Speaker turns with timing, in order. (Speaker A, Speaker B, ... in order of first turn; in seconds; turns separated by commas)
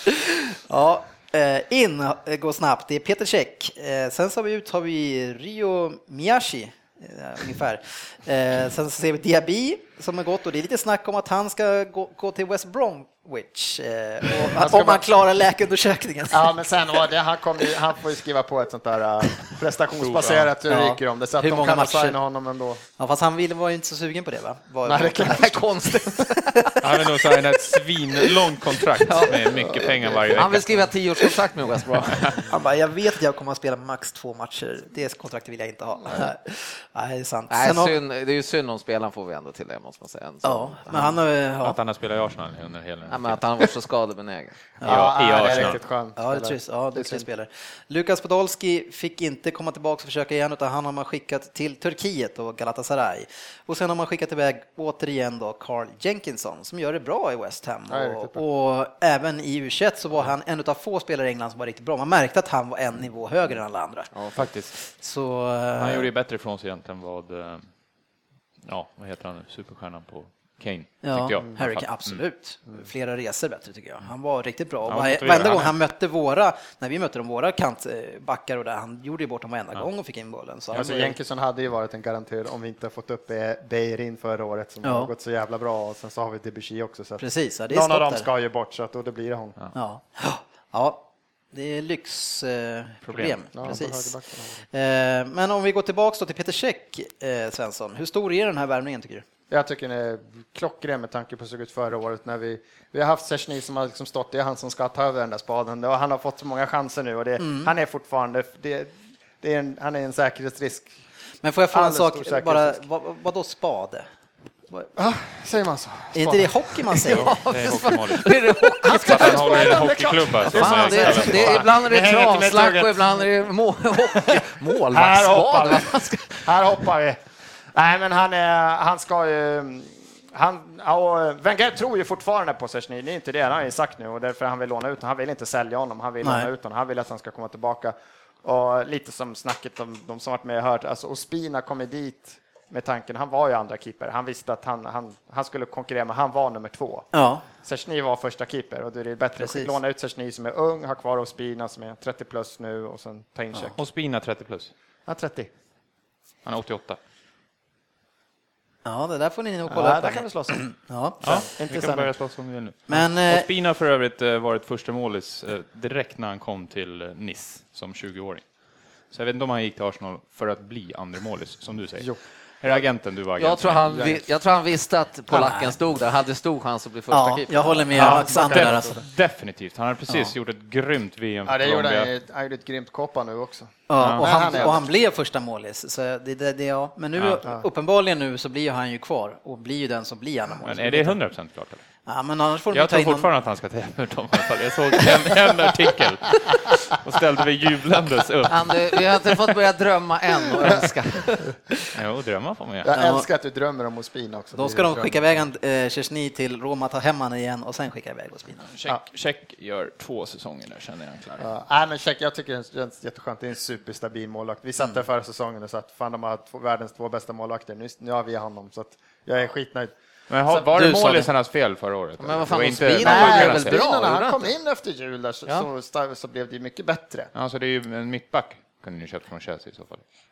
Speaker A: 0.7-16.5, Speaker B: 14.4-15.1, Speaker B: 16.3-22.8, Speaker C: 20.0-20.5, Speaker A: 20.7-22.2, Speaker A: 23.0-25.5, Speaker B: 24.9-25.6, Speaker D: 25.0-26.8, Speaker A: 26.2-26.8, Speaker C: 26.8-30.9, Speaker D: 29.1-29.4, Speaker B: 29.5-30.5, Speaker D: 30.3-32.4, Speaker C: 32.0-32.5, Speaker A: 32.5-38.0, Speaker D: 37.5-41.2, Speaker A: 40.4-41.8, Speaker C: 41.6-43.4, Speaker D: 43.1-44.6, Speaker B: 44.8-47.3, Speaker A: 44.8-64.1, Speaker C: 44.8-45.8, Speaker B: 57.9-58.4, Speaker D: 64.1-64.5, Speaker C: 64.3-64.7, Speaker A: 64.8-66.1, Speaker C: 65.8-67.7, Speaker C: 68.7-72.2, Speaker A: 71.0-81.2, Speaker C: 74.9-75.8, Speaker B: 80.7-89.6, Speaker A: 84.8-85.1, Speaker A: 87.2-88.3, Speaker A: 89.7-94.2, Speaker C: 93.1-93.4, Speaker B: 93.5-94.6, Speaker A: 94.7-99.2, Speaker B: 99.5-110.9, Speaker A: 107.4-107.7, Speaker A: 111.4-114.1, Speaker B: 111.7-112.8, Speaker B: 115.0-117.2, Speaker A: 116.1-117.3, Speaker D: 117.1-119.9, Speaker C: 117.1-121.7, Speaker B: 118.8-123.2, Speaker D: 120.5-126.4, Speaker B: 124.1-127.2, Speaker B: 127.7-147.1, Speaker A: 136.2-136.5, Speaker A: 147.1-147.4, Speaker B: 147.6-153.8, Speaker A: 149.4-149.8, Speaker C: 153.8-154.7, Speaker B: 155.1-155.5, Speaker C: 156.4-157.0, Speaker A: 158.8-161.2, Speaker B: 159.7-160.6, Speaker B: 161.2-162.1, Speaker C: 161.2-168.4, Speaker A: 162.9-163.5, Speaker C: 169.1-174.1, Speaker B: 172.0-172.8, Speaker D: 173.4-177.9, Speaker B: 173.9-174.2, Speaker A: 175.3-175.8, Speaker A: 177.1-179.0, Speaker B: 177.9-179.0, Speaker C: 177.9-182.1, Speaker B: 181.5-184.9, Speaker A: 183.9-191.2, Speaker C: 184.0-184.7, Speaker C: 190.6-191.8, Speaker A: 192.1-193.3, Speaker C: 192.7-199.0, Speaker D: 198.5-201.5, Speaker C: 201.9-202.9, Speaker B: 202.8-205.2, Speaker A: 202.9-203.3, Speaker A: 204.5-208.7, Speaker C: 208.7-211.5, Speaker B: 211.4-219.9, Speaker C: 220.3-223.8, Speaker B: 220.5-221.0, Speaker D: 222.2-224.5, Speaker B: 223.0-227.3, Speaker C: 227.3-230.0